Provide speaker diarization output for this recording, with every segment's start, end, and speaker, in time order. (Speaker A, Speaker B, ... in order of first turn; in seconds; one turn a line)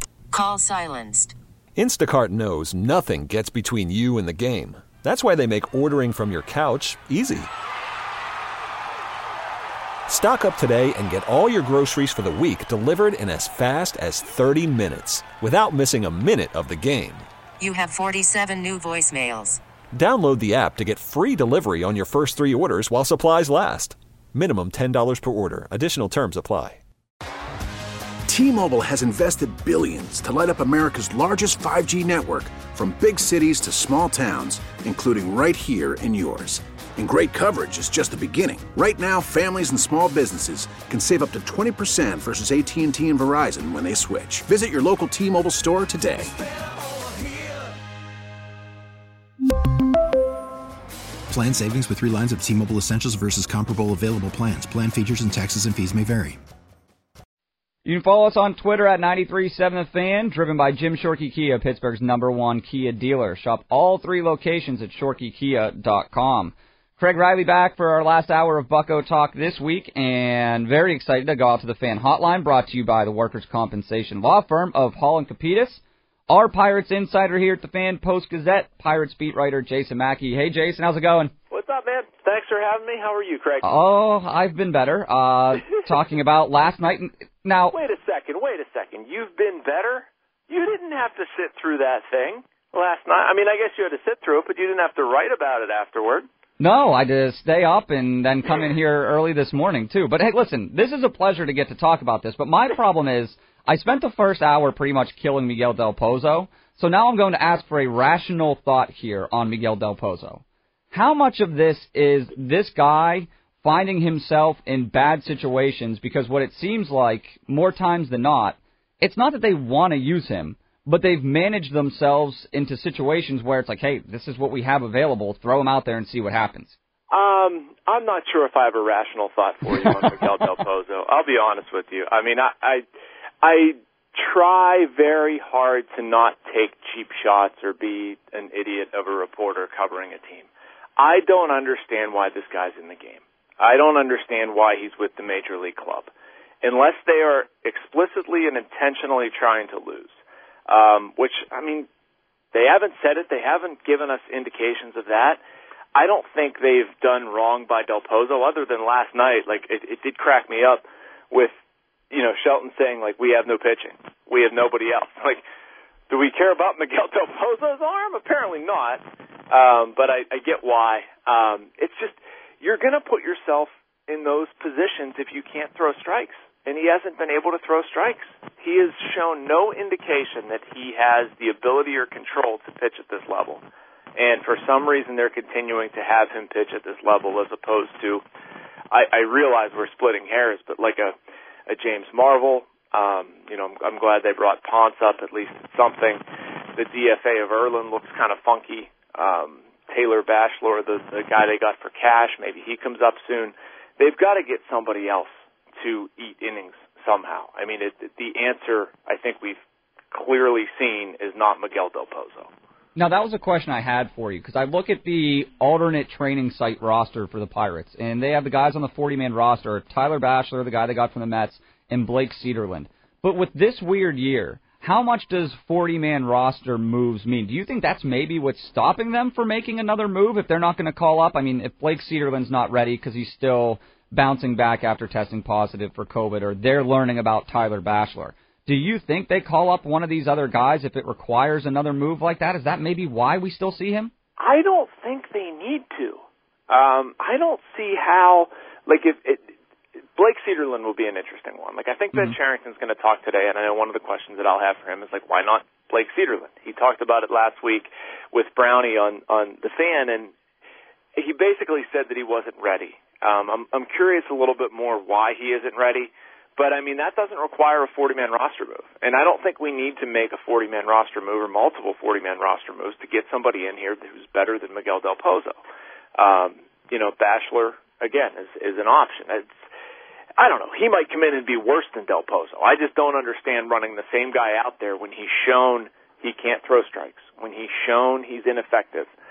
Speaker A: 0.3-1.4
Speaker B: 1.8-7.5
Speaker B: 10.1-17.3
Speaker A: 17.6-19.6
Speaker B: 19.9-26.8
Speaker C: 28.3-46.3
Speaker D: 51.3-56.4
Speaker E: 57.9-81.3
Speaker F: 81.5-83.7
Speaker E: 83.6-87.8
Speaker F: 87.7-96.2
Speaker E: 96.6-126.8
Speaker F: 127.1-132.9
Speaker F: 133.4-146.1
Speaker F: 146.6-151.9
Speaker F: 152.5-155.4
Speaker F: 155.9-161.5
Speaker F: 162.1-165.4
Speaker F: 166.1-183.6
Speaker F: 184.2-188.2
Speaker F: 188.9-191.2
Speaker F: 191.7-196.2
Speaker F: 196.8-209.6
Speaker F: 210.1-212.5
Speaker E: 212.9-244.1
Speaker F: 244.4-249.5
Speaker F: 250.2-260.3
Speaker F: 261.2-275.6
Speaker F: 276.2-279.6
Speaker F: 280.4-289.1